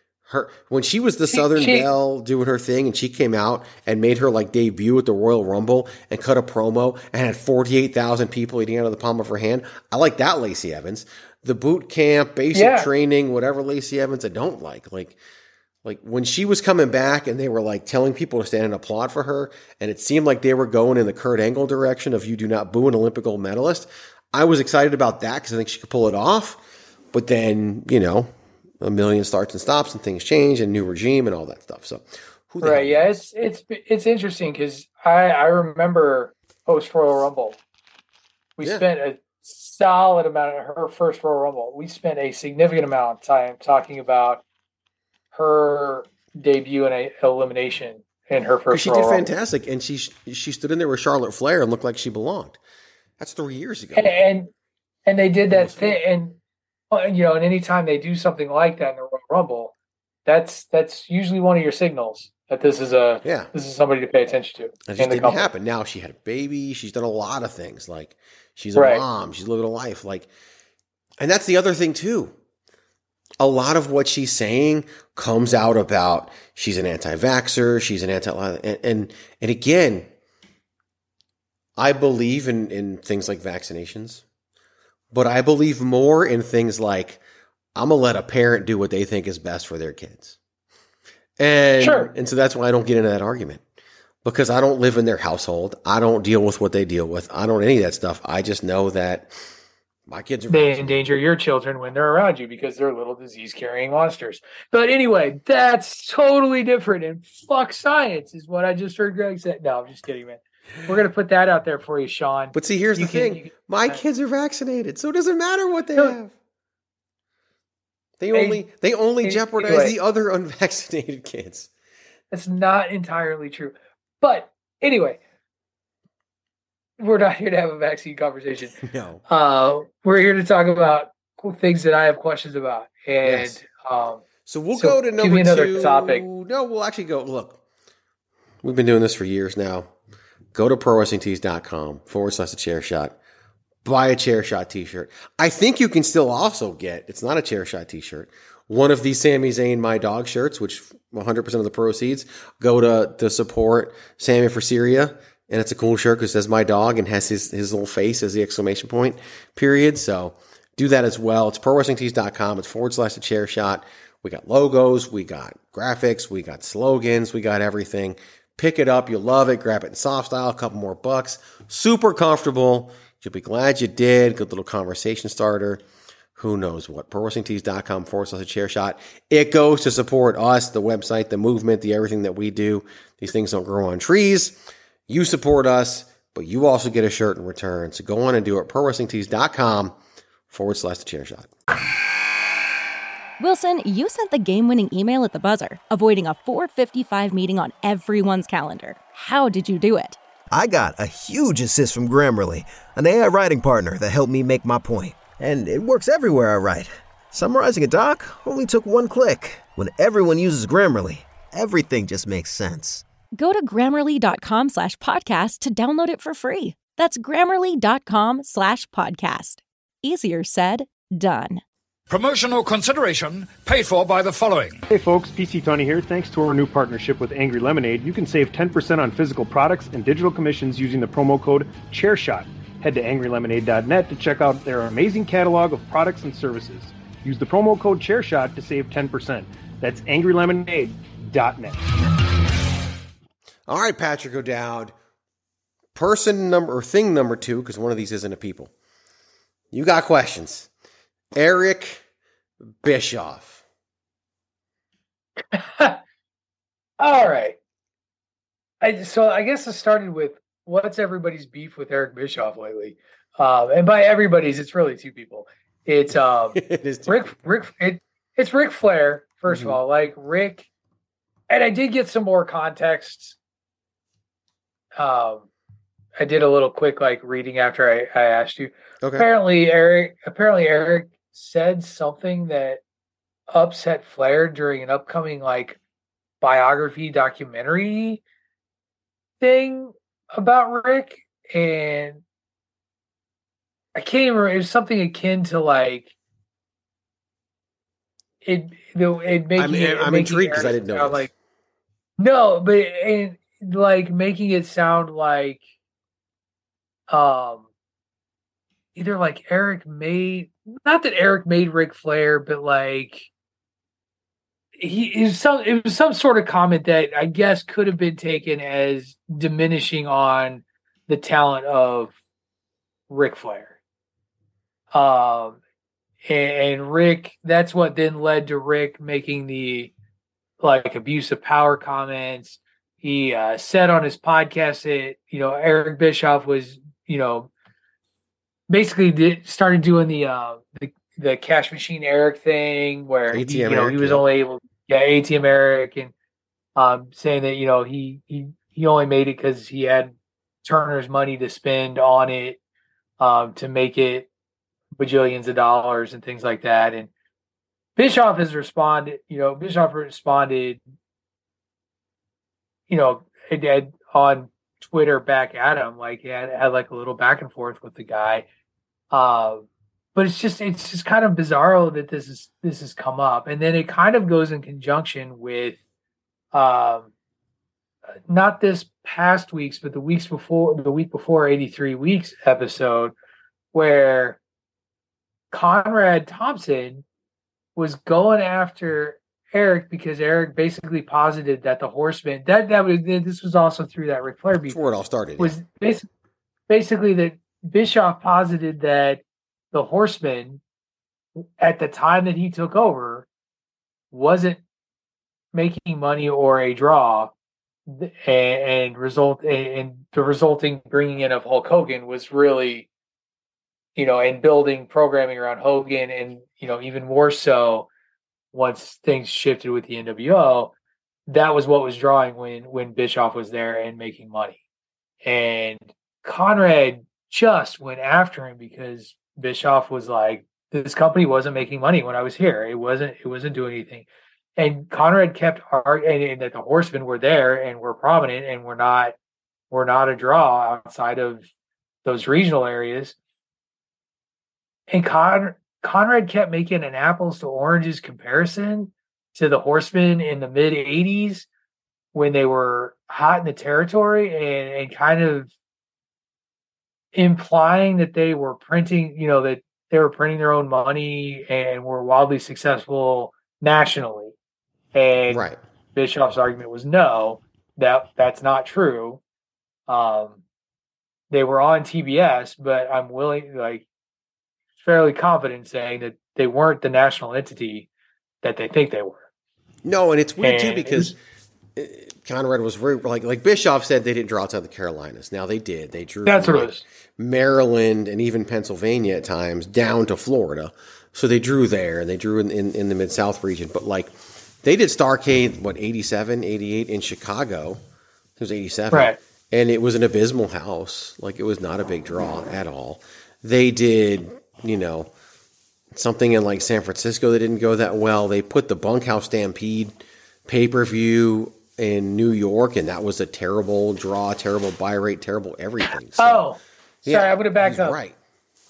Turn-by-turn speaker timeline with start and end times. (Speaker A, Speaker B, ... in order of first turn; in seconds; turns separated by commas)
Speaker A: 0.3-15.2, Speaker B: 1.3-1.9, Speaker B: 12.5-12.9, Speaker A: 15.8-26.6, Speaker A: 27.1-28.3, Speaker A: 28.8-33.0, Speaker B: 32.6-37.6, Speaker B: 38.6-44.4, Speaker B: 45.3-49.3, Speaker A: 48.7-52.6, Speaker A: 53.2-54.2, Speaker B: 54.0-54.5, Speaker B: 55.0-56.4, Speaker A: 55.5-56.0, Speaker B: 56.9-59.7, Speaker B: 60.2-65.5, Speaker A: 63.2-63.5, Speaker A: 64.9-70.3, Speaker B: 68.7-69.0, Speaker A: 71.2-72.3, Speaker A: 73.4-80.1, Speaker A: 81.8-84.2, Speaker A: 85.1-87.2, Speaker A: 87.7-90.4, Speaker A: 91.4-93.6, Speaker B: 91.8-92.1, Speaker A: 94.2-99.3, Speaker A: 100.1-101.0, Speaker B: 100.5-114.0, Speaker A: 112.5-116.3, Speaker A: 118.2-121.7, Speaker B: 118.3-118.6, Speaker B: 119.2-120.0, Speaker B: 122.3-125.2, Speaker B: 127.0-128.7, Speaker A: 128.8-129.2, Speaker B: 129.3-134.2, Speaker A: 133.2-133.6, Speaker A: 134.4-137.6, Speaker B: 134.7-136.2, Speaker A: 138.6-139.9, Speaker A: 140.5-143.2, Speaker A: 143.8-175.8, Speaker A: 176.3-189.9, Speaker A: 190.5-191.5, Speaker C: 193.4-200.2, Speaker D: 200.5-213.0, Speaker C: 213.3-221.6, Speaker E: 222.1-224.8, Speaker F: 224.9-241.8, Speaker A: 243.7-244.9, Speaker A: 245.9-248.7, Speaker A: 249.7-250.7, Speaker A: 251.3-252.0, Speaker A: 252.8-253.6, Speaker B: 255.5-256.0, Speaker B: 257.0-257.6, Speaker B: 258.8-270.7, Speaker A: 266.5-267.3, Speaker A: 269.5-269.8, Speaker B: 271.5-273.4, Speaker B: 274.9-275.5, Speaker B: 276.2-282.8, Speaker A: 279.0-279.3, Speaker B: 283.5-285.8, Speaker B: 286.4-288.2, Speaker B: 289.4-292.2, Speaker B: 293.9-296.1, Speaker B: 298.4-301.3, Speaker A: 299.6-301.3, Speaker B: 302.2-305.6, Speaker B: 307.1-307.7, Speaker B: 308.9-313.3, Speaker B: 314.8-322.1, Speaker B: 323.1-323.8, Speaker B: 324.9-325.6, Speaker B: 326.2-329.9, Speaker B: 330.6-337.5, Speaker B: 338.7-346.1, Speaker A: 343.3-344.2, Speaker B: 346.8-352.6, Speaker B: 353.2-354.3, Speaker B: 355.0-357.1, Speaker B: 358.0-360.8, Speaker B: 362.9-368.4, Speaker B: 369.1-375.8, Speaker B: 376.5-377.1, Speaker B: 378.3-383.1, Speaker B: 383.7-384.4, Speaker B: 385.5-387.0, Speaker B: 387.8-394.8, Speaker A: 394.7-395.5, Speaker B: 395.4-396.1, Speaker B: 396.7-400.6, Speaker B: 401.4-403.3, Speaker B: 404.1-404.6, Speaker B: 405.5-407.3, Speaker B: 407.9-412.9, Speaker B: 413.9-417.9, Speaker B: 418.5-420.7, Speaker B: 421.3-424.6, Speaker B: 425.2-434.1, Speaker B: 434.6-439.1, Speaker B: 439.7-441.5, Speaker B: 442.0-443.1, Speaker B: 444.9-451.5, Speaker B: 452.1-455.5, Speaker B: 457.1-464.3, Speaker B: 464.9-469.2, Speaker A: 465.3-465.6, Speaker B: 469.9-470.4, Speaker B: 471.3-473.9, Speaker B: 474.8-477.9, Speaker B: 478.4-479.2, Speaker A: 479.8-481.1, Speaker B: 480.4-481.1, Speaker A: 481.8-494.1, Speaker B: 486.2-486.8, Speaker A: 494.6-497.8, Speaker A: 498.4-505.1, Speaker B: 498.9-499.2, Speaker A: 505.9-509.9, Speaker A: 510.4-516.5, Speaker B: 516.2-518.0, Speaker A: 517.0-518.1